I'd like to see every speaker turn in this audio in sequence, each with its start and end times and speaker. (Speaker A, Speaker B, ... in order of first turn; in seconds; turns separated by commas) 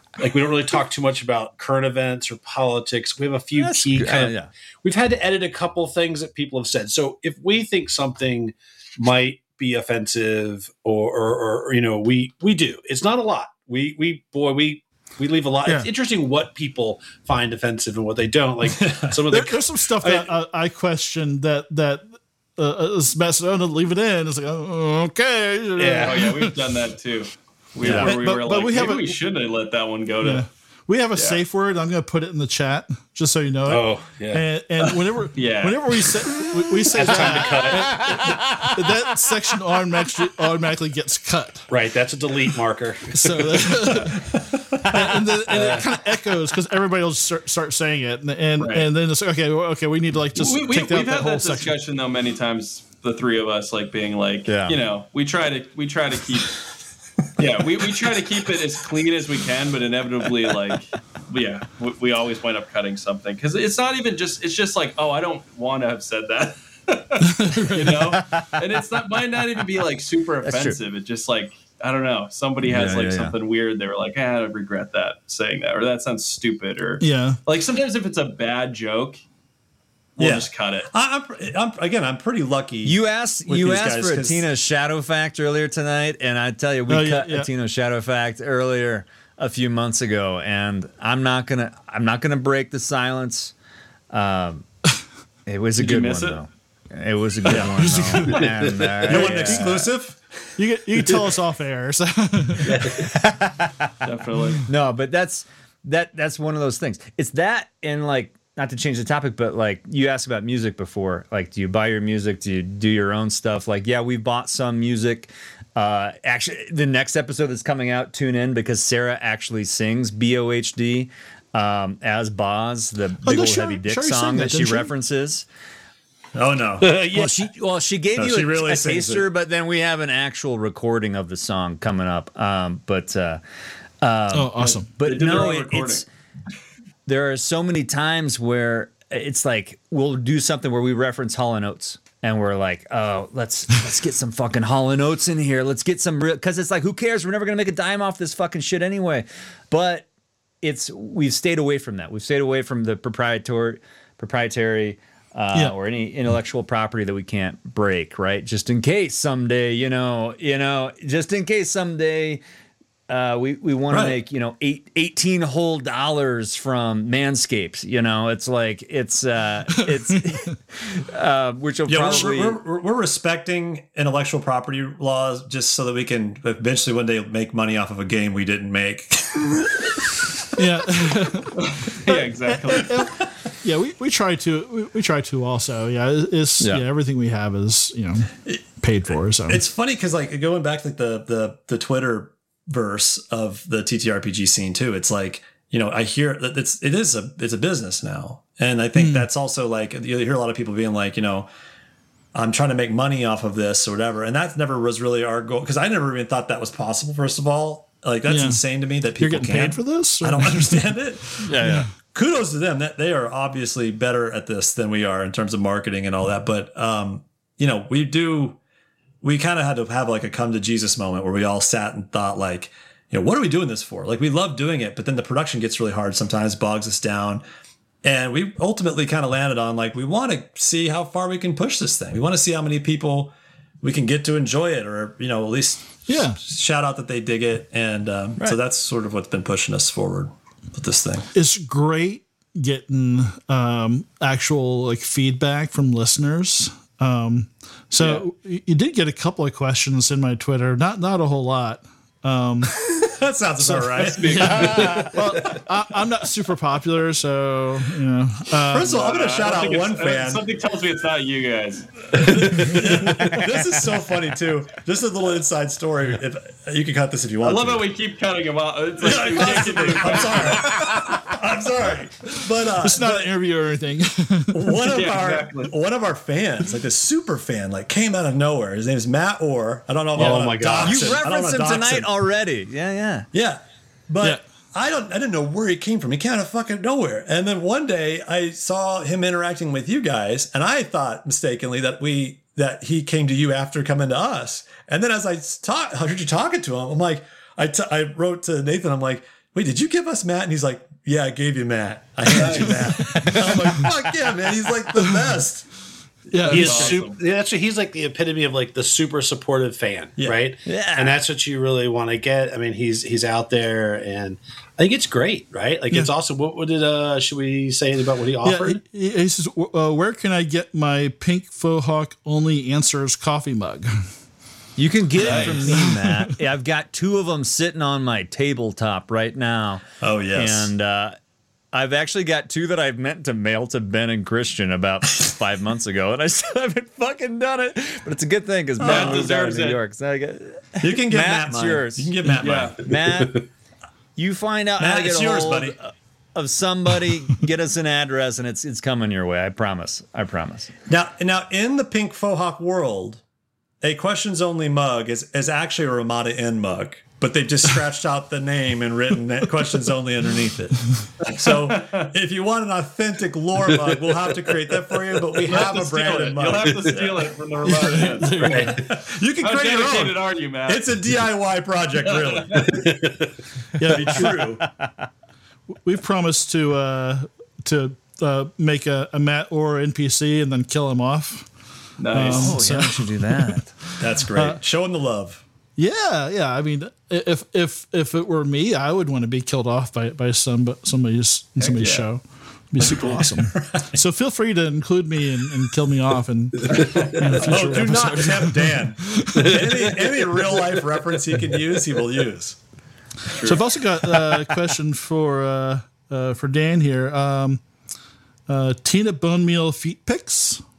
Speaker A: 0.2-20.3, Speaker B: 3.6-4.5, Speaker C: 18.6-19.2, Speaker D: 19.3-26.6, Speaker A: 25.8-26.2, Speaker E: 26.0-30.4, Speaker D: 27.8-29.1, Speaker C: 27.8-28.2, Speaker D: 30.2-41.7, Speaker E: 31.2-31.4, Speaker A: 33.7-34.5, Speaker E: 34.8-36.2, Speaker A: 36.9-38.4, Speaker B: 38.0-38.7, Speaker A: 41.7-43.9, Speaker D: 43.1-44.3, Speaker C: 44.0-45.2, Speaker D: 44.9-51.7, Speaker B: 45.5-45.8, Speaker A: 45.5-45.8, Speaker E: 48.6-48.9, Speaker E: 50.4-56.6, Speaker B: 54.5-54.8, Speaker E: 57.4-79.2, Speaker D: 67.2-68.2, Speaker B: 68.1-68.6, Speaker B: 70.4-70.8, Speaker B: 72.6-73.3, Speaker D: 77.0-77.4, Speaker E: 80.2-80.9, Speaker C: 80.2-84.5, Speaker B: 82.8-93.5, Speaker D: 86.9-87.5, Speaker B: 94.1-94.7, Speaker B: 95.5-99.9, Speaker E: 95.8-96.4, Speaker C: 97.5-97.8, Speaker D: 97.8-99.9, Speaker A: 98.4-99.3, Speaker C: 99.0-100.6, Speaker D: 100.6-102.9, Speaker A: 102.7-103.1, Speaker B: 102.9-103.9, Speaker E: 104.0-104.7, Speaker B: 104.6-125.5, Speaker D: 123.2-124.9, Speaker C: 126.3-127.0, Speaker A: 126.8-127.5, Speaker B: 127.1-133.4, Speaker C: 128.2-129.3, Speaker B: 134.0-136.1, Speaker D: 134.3-134.9, Speaker E: 135.0-136.0, Speaker B: 137.1-150.1, Speaker B: 150.6-162.4, Speaker B: 163.1-172.6, Speaker C: 163.9-164.2, Speaker D: 170.1-170.5, Speaker C: 171.9-180.5, Speaker D: 180.6-189.6, Speaker E: 181.6-182.9, Speaker B: 186.6-186.9, Speaker C: 189.5-201.5, Speaker D: 199.0-199.3, Speaker C: 202.3-218.6, Speaker D: 208.3-208.6, Speaker D: 209.2-210.9, Speaker B: 211.4-211.9, Speaker D: 211.6-211.9, Speaker C: 219.2-227.4, Speaker C: 228.0-241.3, Speaker D: 236.1-236.4, Speaker D: 241.3-252.9, Speaker C: 252.8-254.7, Speaker D: 253.6-259.0, Speaker E: 254.0-255.2, Speaker B: 254.4-255.2, Speaker C: 258.7-260.4, Speaker E: 258.9-262.7, Speaker C: 262.1-267.9, Speaker E: 267.4-270.9, Speaker C: 269.0-273.3, Speaker D: 272.8-274.8, Speaker C: 274.5-282.1, Speaker E: 274.9-275.7, Speaker A: 280.1-281.2, Speaker B: 280.8-283.3, Speaker C: 283.3-305.7, Speaker E: 302.3-302.9, Speaker B: 303.1-303.6, Speaker D: 303.3-303.9, Speaker D: 306.3-307.0, Speaker E: 306.4-307.2, Speaker A: 306.4-318.8, Speaker B: 310.7-311.2, Speaker D: 318.4-323.9, Speaker B: 324.8-329.8, Speaker E: 325.2-325.7, Speaker D: 325.4-326.3, Speaker C: 330.0-330.7, Speaker B: 330.3-331.2, Speaker B: 331.7-343.4, Speaker C: 338.8-339.3, Speaker E: 338.8-339.8, Speaker C: 340.8-342.8, Speaker E: 342.4-342.8, Speaker A: 343.0-343.4, Speaker B: 344.2-350.7, Speaker C: 344.8-345.8, Speaker C: 350.9-353.2, Speaker C: 353.8-367.3, Speaker E: 361.3-362.1, Speaker E: 365.4-368.5, Speaker A: 366.6-366.9, Speaker D: 367.7-368.8, Speaker A: 368.3-368.8, Speaker C: 368.4-372.8, Speaker E: 369.4-370.9, Speaker E: 372.1-372.8, Speaker A: 372.8-373.3, Speaker D: 373.8-374.6, Speaker C: 373.9-374.6, Speaker B: 374.1-375.1, Speaker D: 375.8-381.5, Speaker E: 382.0-382.6, Speaker D: 382.1-384.6, Speaker B: 382.2-383.7, Speaker C: 384.0-385.4, Speaker D: 385.8-399.6, Speaker E: 391.6-392.1, Speaker C: 392.8-394.0, Speaker A: 396.7-397.2, Speaker E: 397.4-397.8, Speaker C: 397.4-402.6, Speaker A: 399.4-401.6, Speaker A: 403.4-404.6, Speaker D: 403.4-407.6, Speaker D: 408.5-410.6